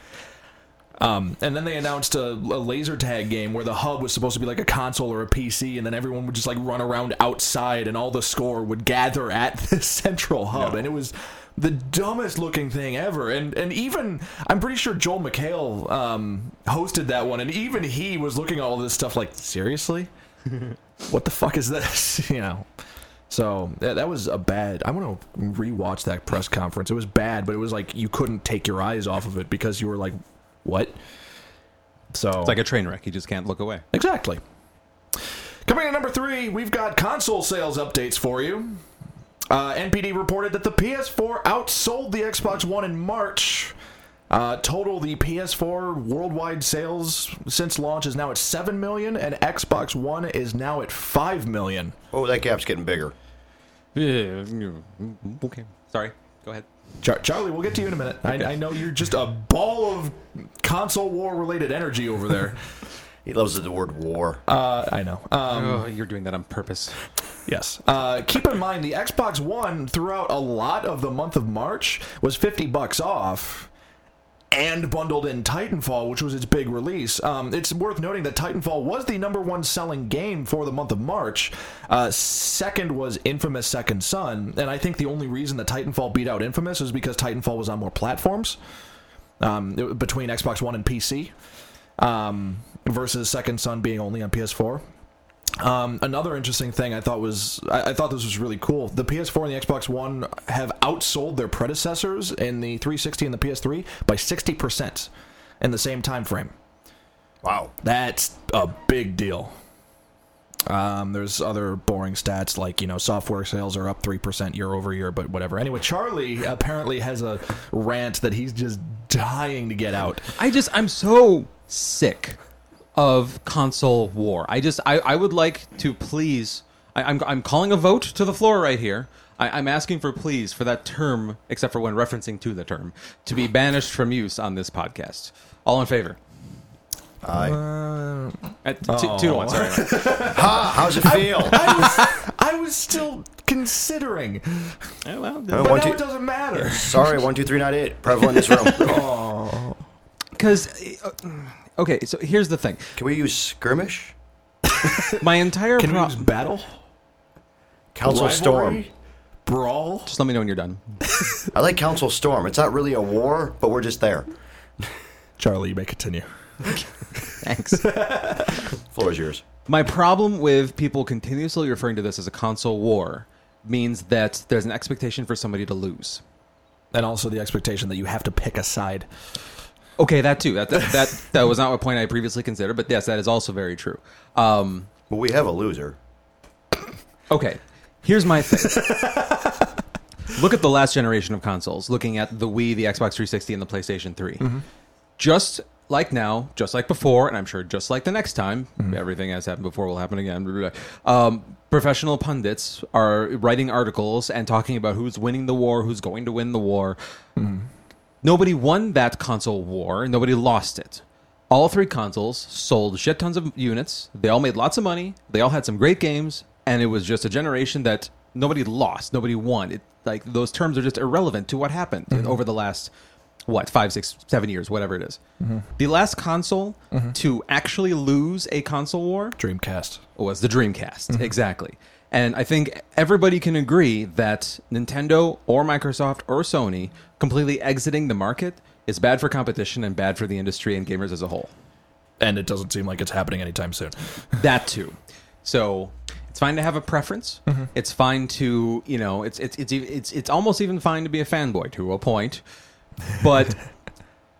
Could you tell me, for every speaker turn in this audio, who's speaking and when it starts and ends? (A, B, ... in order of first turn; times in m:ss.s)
0:01.0-0:20.1 A
0:10.5-0:10.8 B
0:21.1-0:22.7 A
0:23.3-0:31.0 A
0:32.1-0:32.6 A
0:32.4-0:33.8 B
0:33.9-0:34.4 A
0:35.6-0:38.8 A
0:39.5-0:43.7 A
0:44.3-0:52.0 A
0:52.1-0:53.1 C
0:53.9-0:56.6 B
0:57.0-1:02.6 A
1:03.2-1:04.4 C
1:04.5-1:05.8 A
1:05.4-1:07.0 B
1:07.4-1:13.7 A
1:14.5-1:28.6 A
1:29.4-1:31.4 A
1:32.0-1:34.8 A
1:35.6-1:46.5 A
1:47.4-1:47.7 C
1:47.8-1:49.5 A
1:50.6-2:00.3 A
2:00.4-2:02.4 B
2:02.9-2:16.2 B
2:17.2-2:17.6 C
2:17.3-2:24.9 A
2:18.6-2:20.4 B
2:20.3-2:21.6 C
2:21.5-2:22.1 B
2:25.0-2:25.9 B
2:25.5-2:29.0 C
2:25.6-2:27.1 A
2:28.6-2:29.9 A
2:30.4-2:33.0 B
2:33.0-2:34.1 C
2:35.2-2:36.2 B
2:35.8-2:36.8 A
2:37.9-2:38.9 C
2:38.0-2:38.9 A
2:39.4-2:40.1 A
2:40.0-2:41.0 B
2:41.5-2:44.3 C
2:45.4-2:46.7 A
2:46.7-2:47.9 B
2:47.3-2:48.5 A
2:48.9-2:49.4 C
2:49.7-2:56.2 B
2:56.9-2:59.1 A
3:00.0-3:04.9 B
3:05.1-3:06.0 C
3:07.3-3:08.9 B
3:08.8-3:09.5 A
3:10.3-3:14.5 B
3:14.4-3:14.6 A
3:15.2-3:27.0 B
3:27.4-3:27.7 A
3:28.2-3:42.9 B
3:42.1-3:42.4 A
3:43.5-3:45.2 B
3:45.4-3:45.7 A
3:45.8-3:49.4 B
3:49.4-3:50.0 A
3:50.2-4:01.5 B
4:02.2-4:04.4 A
4:04.4-4:12.4 B
4:13.1-4:13.7 B